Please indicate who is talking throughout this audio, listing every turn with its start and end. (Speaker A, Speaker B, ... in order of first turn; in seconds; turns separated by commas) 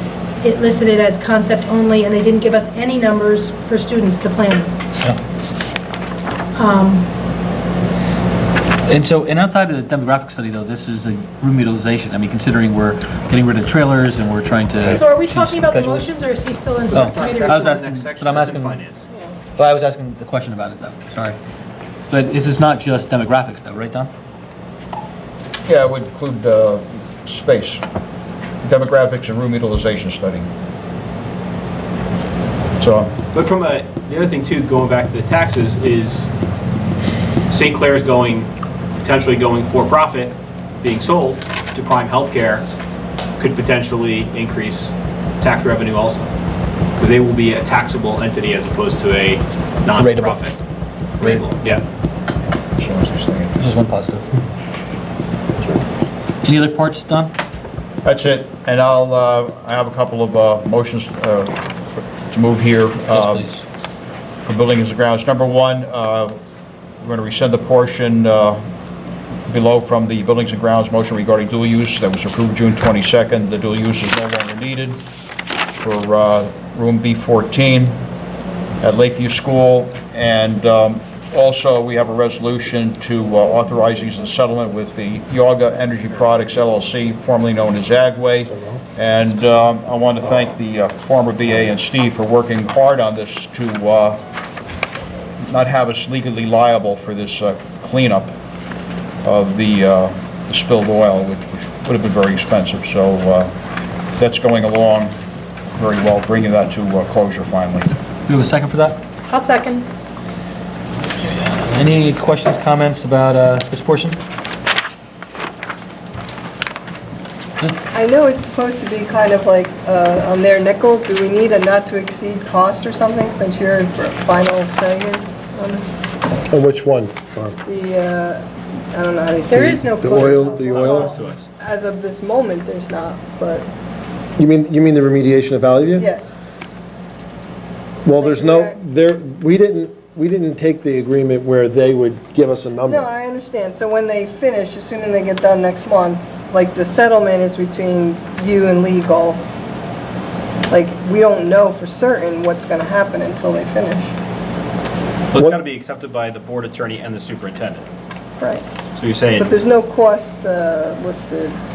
Speaker A: 0.4-4.7, Speaker A: 6.5-7.1, Speaker B: 8.9-16.1, Speaker A: 14.9-17.7, Speaker B: 16.9-18.8, Speaker C: 16.9-19.1, Speaker D: 19.1-19.4, Speaker B: 19.6-21.4, Speaker B: 22.1-24.1, Speaker E: 25.7-27.8, Speaker E: 28.6-30.5, Speaker E: 32.8-33.1, Speaker C: 33.3-36.3, Speaker C: 37.5-38.5, Speaker C: 39.0-42.6, Speaker C: 43.4-46.3, Speaker C: 47.0-50.6, Speaker B: 50.0-50.4, Speaker C: 51.2-51.8, Speaker B: 51.2-51.5, Speaker E: 52.8-53.5, Speaker B: 53.5-54.3, Speaker B: 56.4-57.4, Speaker E: 58.0-63.5, Speaker B: 63.1-63.6, Speaker E: 64.4-66.4, Speaker E: 67.0-68.6, Speaker E: 69.5-75.0, Speaker E: 75.8-78.0, Speaker E: 78.8-94.2, Speaker F: 88.5-88.8, Speaker E: 95.4-98.3, Speaker E: 99.2-103.5, Speaker E: 104.1-105.1, Speaker E: 105.8-107.9, Speaker B: 108.3-109.0, Speaker A: 109.3-109.9, Speaker B: 111.2-114.2, Speaker D: 117.9-125.8, Speaker F: 126.5-127.6, Speaker D: 127.7-129.9, Speaker A: 129.5-131.1, Speaker F: 129.6-131.1, Speaker C: 130.7-131.4, Speaker D: 130.7-133.7, Speaker F: 134.4-136.1, Speaker D: 136.0-136.3, Speaker F: 138.1-143.1, Speaker D: 138.2-138.7, Speaker D: 142.9-149.4, Speaker D: 150.7-154.1, Speaker C: 155.3-157.9, Speaker D: 158.4-158.6, Speaker C: 159.0-159.5, Speaker D: 159.4-161.6